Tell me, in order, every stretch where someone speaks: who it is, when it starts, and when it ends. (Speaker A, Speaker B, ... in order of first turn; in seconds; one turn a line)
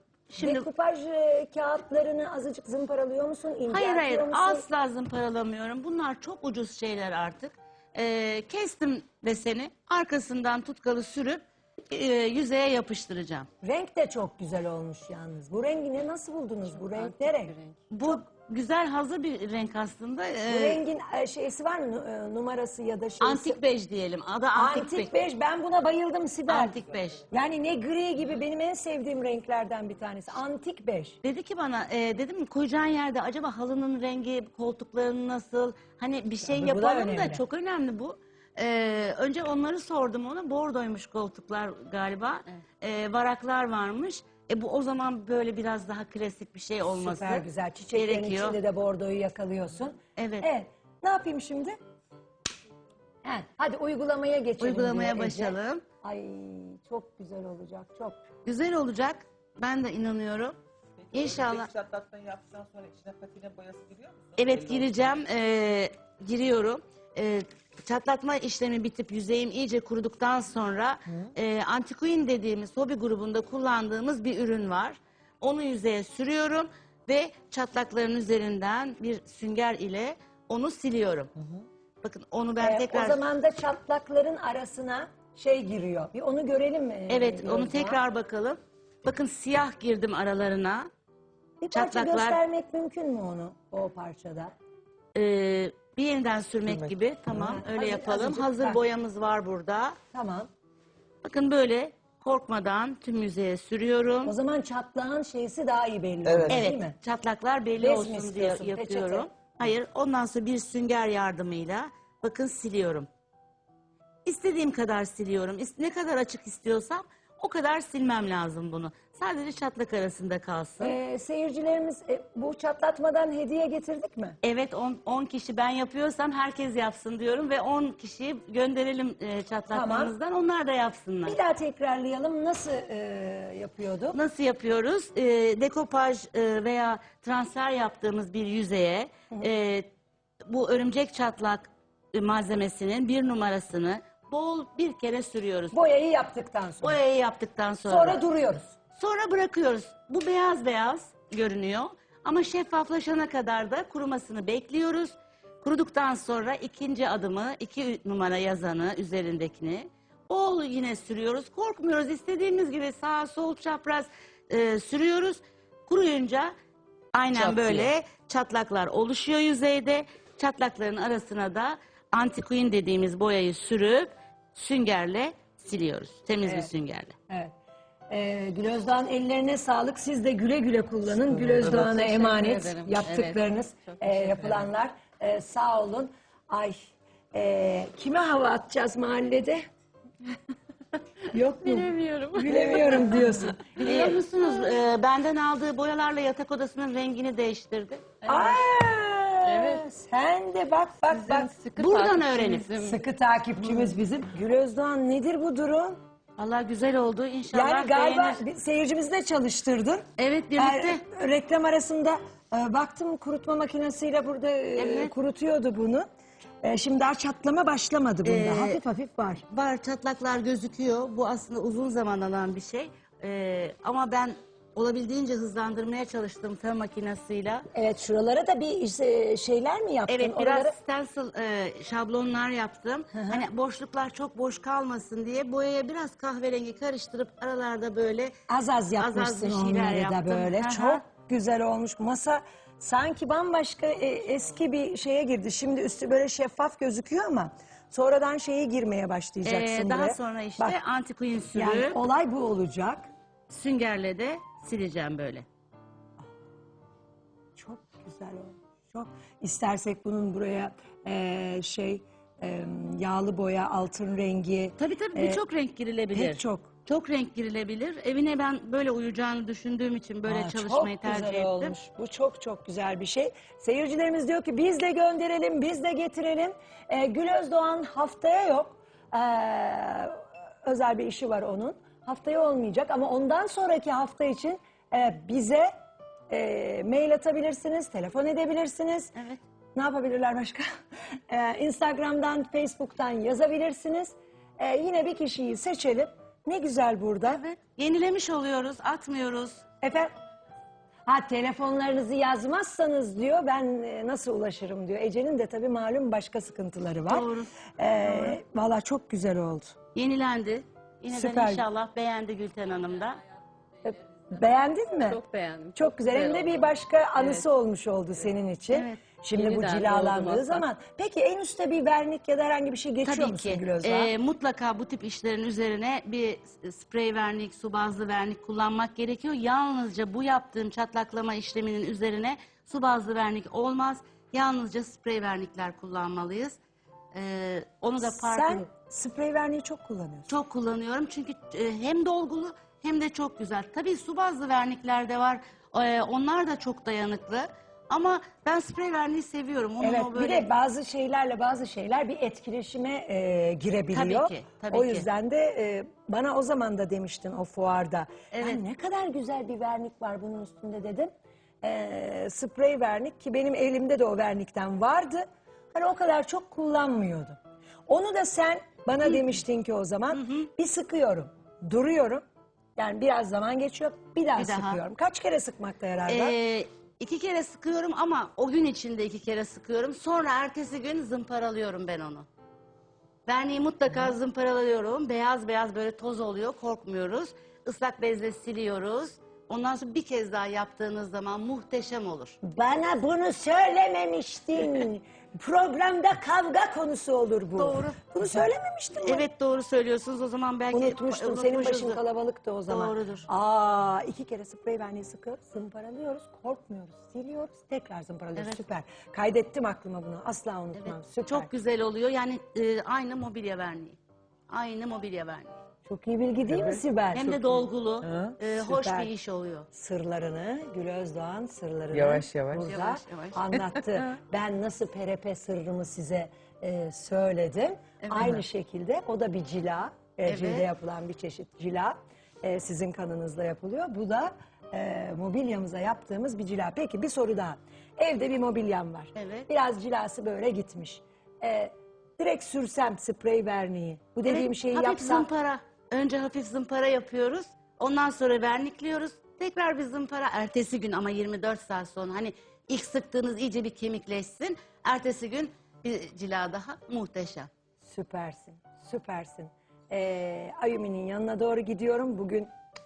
Speaker A: 0.3-0.7
Speaker B: 0.4-4.7
Speaker A: 3.7-13.5
Speaker B: 13.6-17.6
Speaker C: 16.7-17.8
Speaker A: 17.9-20.8
Speaker B: 20.5-23.6
Speaker A: 23.2-25.1
Speaker B: 24.6-26.8
Speaker A: 26.5-27.3
Speaker B: 27.3-31.2
Speaker A: 31.2-48.6
Speaker B: 36.5-37.4
Speaker B: 46.9-51.8
Speaker A: 50.2-50.5
Speaker B: 53.2-58.2
Speaker A: 54.6-55.8
Speaker A: 58.5-60.6
Speaker A: 61.1-61.7
Speaker D: 61.8-64.3
Speaker A: 64.4-81.3
Speaker A: 82.0-83.2
Speaker B: 82.6-88.0
Speaker A: 87.1-90.9
Speaker B: 91.6-94.5
Speaker A: 91.7-92.4
Speaker A: 95.2-100.0
Speaker B: 97.3-98.8
Speaker B: 100.1-100.5
Speaker A: 101.2-104.3
Speaker B: 104.2-107.0
Speaker A: 106.5-113.1
Speaker B: 107.8-109.3
Speaker A: 114.3-121.0
Speaker B: 120.8-124.4
Speaker A: 124.4-131.4
Speaker B: 129.7-130.2
Speaker B: 131.2-134.2
Speaker A: 134.1-139.9
Speaker A: 140.5-145.8
Speaker B: 145.7-147.0
Speaker A: 146.8-148.2
Speaker B: 147.8-148.8
Speaker A: 148.9-166.5
Speaker A: 167.2-177.2
Speaker B: 167.3-167.9
Speaker B: 176.4-176.7
Speaker B: 178.1-186.8
Speaker C: 181.3-184.7
Speaker B: 187.3-189.6
Speaker B: 191.3-194.1
Speaker C: 191.6-194.2
Speaker A: 193.8-198.1
Speaker C: 198.2-198.6
Speaker B: 198.3-201.5
Speaker C: 199.5-199.9
Speaker C: 201.1-203.0
Speaker A: 201.8-202.7
Speaker B: 202.8-206.0
Speaker A: 206.4-208.4
Speaker B: 207.5-216.1
Speaker A: 210.2-211.0
Speaker A: 214.8-215.1
Speaker B: 216.6-219.4
Speaker A: 218.2-218.8
Speaker A: 219.5-227.7
Speaker B: 227.7-230.8
Speaker A: 230.1-238.3
Speaker B: 233.1-233.5
Speaker B: 238.5-250.8
Speaker A: 239.0-241.0
Speaker A: 249.4-252.0
Speaker B: 251.5-253.1
Speaker A: 253.5-255.5
Speaker B: 257.6-265.4
Speaker A: 264.8-271.8
Speaker B: 266.1-266.7
Speaker B: 270.3-285.7
Speaker B: 286.3-289.1
Speaker A: 289.1-289.4
Speaker B: 289.8-290.7
Speaker B: 291.3-297.5
Speaker A: 297.2-299.6
Speaker B: 299.8-300.1
Speaker B: 301.1-309.8
Speaker A: 307.1-308.4
Speaker A: 309.9-313.2
Speaker B: 311.1-311.6
Speaker C: 313.8-314.5
Speaker B: 313.8-315.2
Speaker C: 315.1-317.5
Speaker B: 315.8-324.1
Speaker A: 318.7-319.0
Speaker C: 319.4-320.6
Speaker A: 323.0-336.6
Speaker A: 337.1-338.7
Speaker B: 338.0-340.4
Speaker A: 340.3-350.5
Speaker B: 349.8-361.1
Speaker A: 353.9-355.1
Speaker A: 358.3-358.6
Speaker B: 361.6-372.2
Speaker A: 370.1-370.5
Speaker B: 372.8-376.4
Speaker A: 374.4-374.8
Speaker A: 376.1-382.3
Speaker A: 383.3-392.4
Speaker B: 392.4-399.3
Speaker A: 397.6-398.5
Speaker A: 399.0-402.0
Speaker B: 400.7-411.5
Speaker A: 402.7-403.3
Speaker A: 408.4-408.6
Speaker A: 410.8-414.0
Speaker A: 414.5-415.5
Speaker B: 415.9-419.1
Speaker A: 417.1-419.7
Speaker B: 419.7-445.3
Speaker D: 421.9-422.4
Speaker A: 422.6-423.5
Speaker A: 428.0-428.4
Speaker A: 430.3-430.7
Speaker A: 439.1-439.5
Speaker A: 444.3-457.5
Speaker B: 457.8-462.5